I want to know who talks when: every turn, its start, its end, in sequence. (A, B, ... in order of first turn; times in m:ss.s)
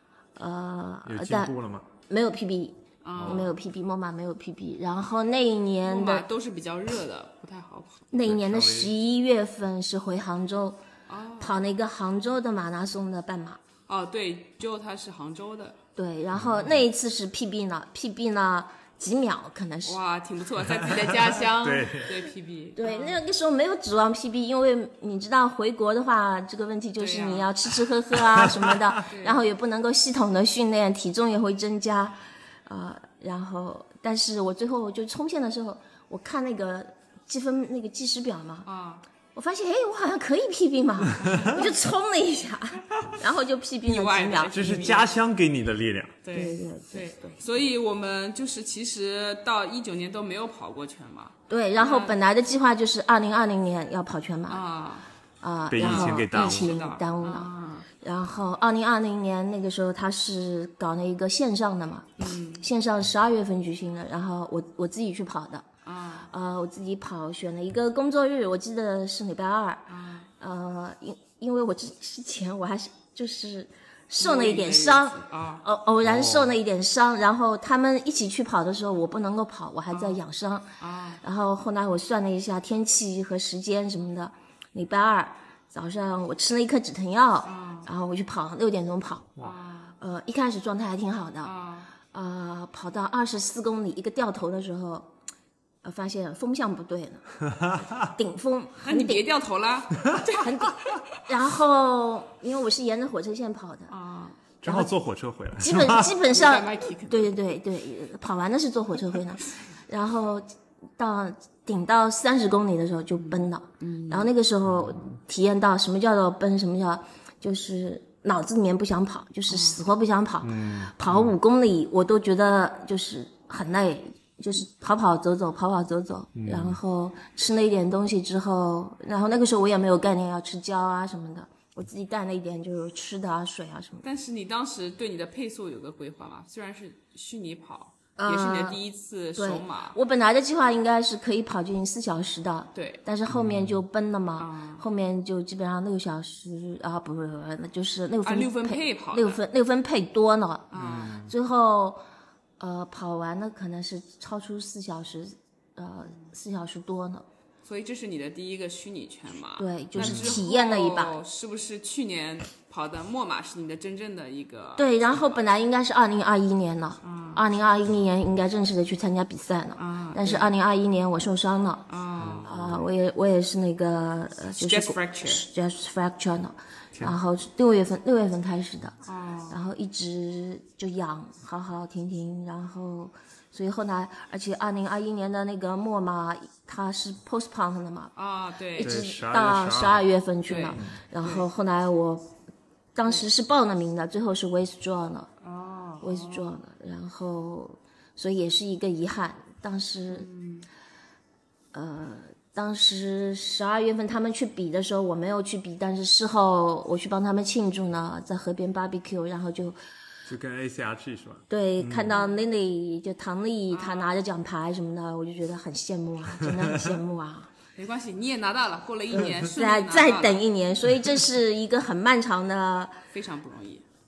0:00.4-0:01.5 A
0:01.0-0:01.9 B
0:02.1-0:06.2 A
0:03.0-0:03.5 C
0:03.2-0:03.4 B
0:05.8-0:08.0 C
0:08.1-0:10.8 A
0:08.2-0:08.9 B
0:11.1-0:11.6 C
0:11.4-0:13.6 A
0:13.9-0:15.8 C
0:16.0-0:20.0 A
0:16.3-0:16.8 B
0:19.8-0:23.2 C
0:21.5-0:22.2 B
0:22.8-0:38.7 A
0:27.0-0:27.5 C
0:28.3-0:29.0 B
0:29.0-0:29.4 C
0:38.6-0:39.0 C
0:39.3-0:45.0 A
0:41.2-0:41.6 C
0:43.9-0:45.1 C
0:44.5-0:46.2 B
0:46.2-0:52.2 C
0:46.3-0:47.4 A
0:51.5-0:54.6 A
0:54.5-0:55.1 C
0:55.4-0:57.5 A
0:55.7-0:56.8 B
0:55.8-0:57.9 C
0:58.0-1:05.6 A
1:02.2-1:02.6 C
1:05.8-1:06.3 C
1:06.3-1:09.9 A
1:09.9-1:10.3 C
1:10.4-1:29.4 A
1:14.2-1:15.6 C
1:16.0-1:16.6 B
1:19.9-1:20.2 C
1:20.8-1:21.2 C
1:27.4-1:27.9 C
1:29.4-1:29.9 C
1:30.0-1:31.5 A
1:31.4-1:31.9 C
1:32.1-1:35.1 A
1:35.8-1:37.2 A
1:37.6-1:38.0 B
1:38.0-1:39.3 A
1:38.8-1:41.0 C
1:40.3-1:43.9 A
1:43.9-1:44.4 C
1:44.6-1:46.1 B
1:44.6-1:44.9 A
1:45.6-1:50.5 A
1:46.3-1:47.4 C
1:51.0-2:14.0 A
1:53.2-1:54.3 C
1:54.6-1:55.0 B
1:59.5-1:59.8 C
2:00.4-2:01.3 B
2:06.4-2:06.8 B
2:14.0-2:20.0 C
2:18.2-2:18.8 A
2:19.4-2:32.0 A
2:22.7-2:23.0 C
2:23.3-2:23.8 B
2:24.4-2:24.8 C
2:28.2-2:29.4 C
2:30.7-2:31.1 C
2:30.7-2:31.3 B
2:32.6-2:37.2 A
2:37.6-2:45.4 C
2:39.6-2:41.2 A
2:40.0-2:40.4 B
2:44.8-2:51.9 A
2:47.0-2:47.4 C
2:49.8-2:50.5 C
2:51.9-2:52.5 C
2:52.2-2:52.9 B
2:52.4-2:59.0 A
2:54.6-2:55.4 C
2:59.0-2:59.6 C
2:59.5-3:08.1 A
3:08.1-3:08.9 C
3:08.7-3:12.2 A
3:08.8-3:10.0 B
3:10.5-3:11.4 C
3:12.9-3:15.3 A
3:15.4-3:16.5 C
3:16.0-3:20.3 A
3:20.1-3:20.7 C
3:21.7-3:29.8 A
3:30.3-3:32.2 B
3:31.5-3:37.5 A
3:33.7-3:34.1 C
3:37.8-3:40.4 C
3:39.1-3:43.0 A
3:43.1-3:43.8 C